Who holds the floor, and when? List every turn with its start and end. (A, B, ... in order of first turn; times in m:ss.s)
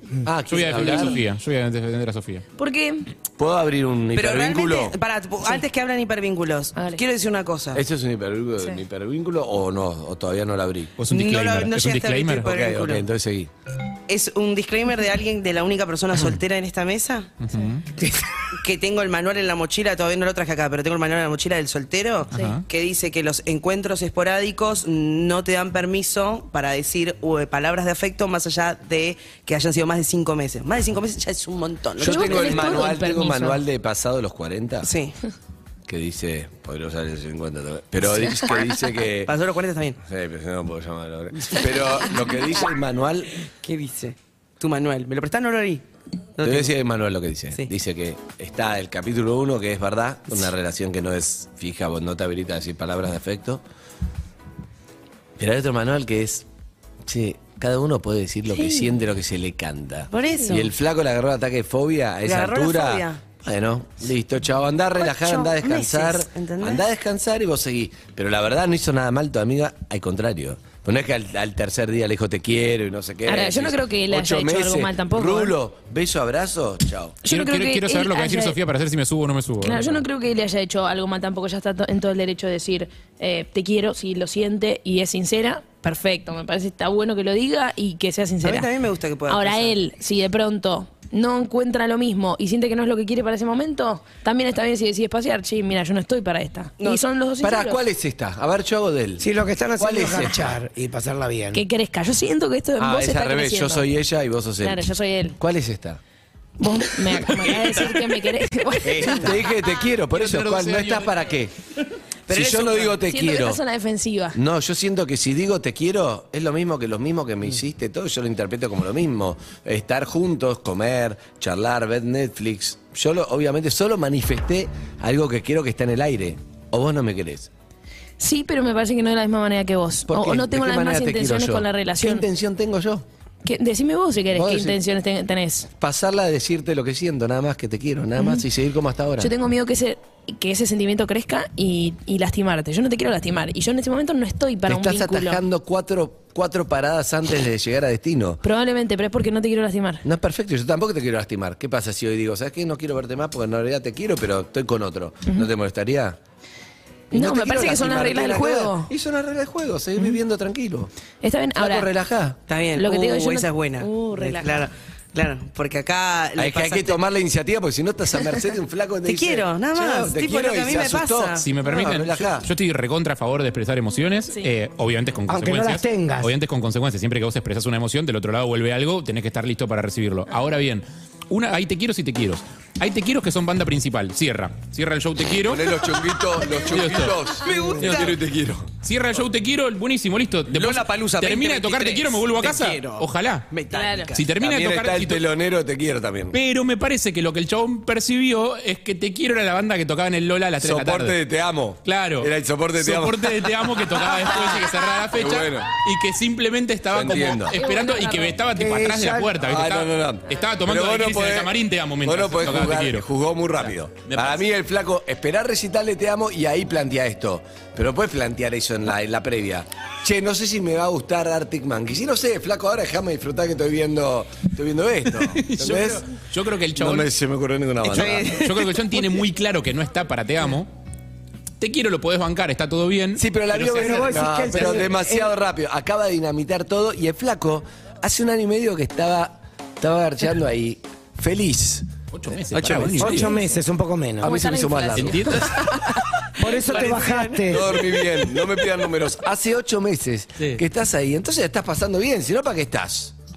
0:00.2-0:01.2 A
0:00.4-0:02.4 B
0:02.6-0:03.1 C
0:03.4-0:05.0 A
0:04.2-0:07.8 D
0:06.8-0:07.0 C
0:07.7-0:10.9 A
0:11.0-0:12.5 B
0:11.1-0:13.0 D
0:12.4-0:13.5 A
0:14.1-0:17.3 D
0:17.4-0:17.8 B
0:18.6-0:33.0 D
0:22.3-0:22.6 B
0:32.0-0:34.9 A
0:32.0-0:33.6 C
0:34.8-0:35.2 D
0:35.9-0:39.3 A
0:39.3-0:40.0 D
0:40.0-0:43.4 A
0:43.6-0:45.8 D
0:46.4-0:46.7 D
0:46.4-0:53.6 A
0:55.4-0:56.5 A
0:57.1-1:17.2 A
0:58.5-0:59.0 C
1:00.1-1:00.7 D
1:00.4-1:00.6 C
1:02.2-1:03.2 D
1:05.0-1:06.9 D
1:13.3-1:15.6 C
1:17.2-1:18.6 C
1:17.3-1:20.0 B
1:19.6-1:28.7 C
1:28.4-1:29.8 D
1:29.3-1:37.8 C
1:36.8-1:37.0 D
1:37.4-1:39.3 A
1:39.2-1:41.6 E
1:39.8-1:40.6 A
1:41.5-1:43.9 C
1:42.8-1:46.0 A
1:44.6-1:45.4 C
1:46.6-1:49.4 C
1:48.8-1:51.5 A
1:50.1-1:51.2 B
1:52.3-1:53.6 A
1:52.3-1:52.9 D
1:53.0-1:54.4 C
1:54.3-2:07.5 A
2:08.2-2:12.3 C
2:10.1-2:13.0 A
2:13.4-2:15.7 C
2:14.3-2:14.8 A
2:15.8-2:19.3 A
2:18.2-2:18.4 C
2:19.2-2:25.4 C
2:24.7-2:28.4 A
2:28.4-2:30.0 C
2:30.0-2:36.2 A
2:37.1-2:38.9 C
2:37.1-2:40.9 A
2:41.2-2:41.9 C
2:41.6-2:42.4 A
2:42.5-2:47.0 D
2:42.8-2:44.7 C
2:46.4-2:52.5 A
2:49.0-2:51.5 D
2:51.4-3:05.7 B
2:55.3-2:56.3 E
3:05.4-3:08.7 A
3:06.7-3:07.2 B
3:07.5-3:08.2 D
3:07.8-3:08.1 B
3:08.8-3:13.5 B
3:10.5-3:14.2 D
3:13.7-3:14.2 C
3:14.1-3:15.3 B
3:14.4-3:16.4 A
3:16.3-3:21.2 B
3:20.6-3:25.7 A
3:21.8-3:33.1 B
3:26.9-3:27.6 A
3:27.5-3:28.4 C
3:28.6-3:29.4 E
3:29.4-3:46.1 A
3:33.6-3:34.4 B
3:45.2-3:47.1 B
3:46.8-3:48.6 A
3:47.8-3:49.0 D
3:48.3-3:50.7 B
3:51.6-3:54.8 B
3:53.2-4:03.3 A
3:53.7-3:55.3 E
4:02.1-4:03.4 B
4:03.0-4:04.5 E
4:04.2-4:05.5 A
4:04.2-4:06.0 C
4:05.0-4:05.5 B
4:06.4-4:07.9 E
4:06.4-4:08.1 D
4:07.5-4:13.1 A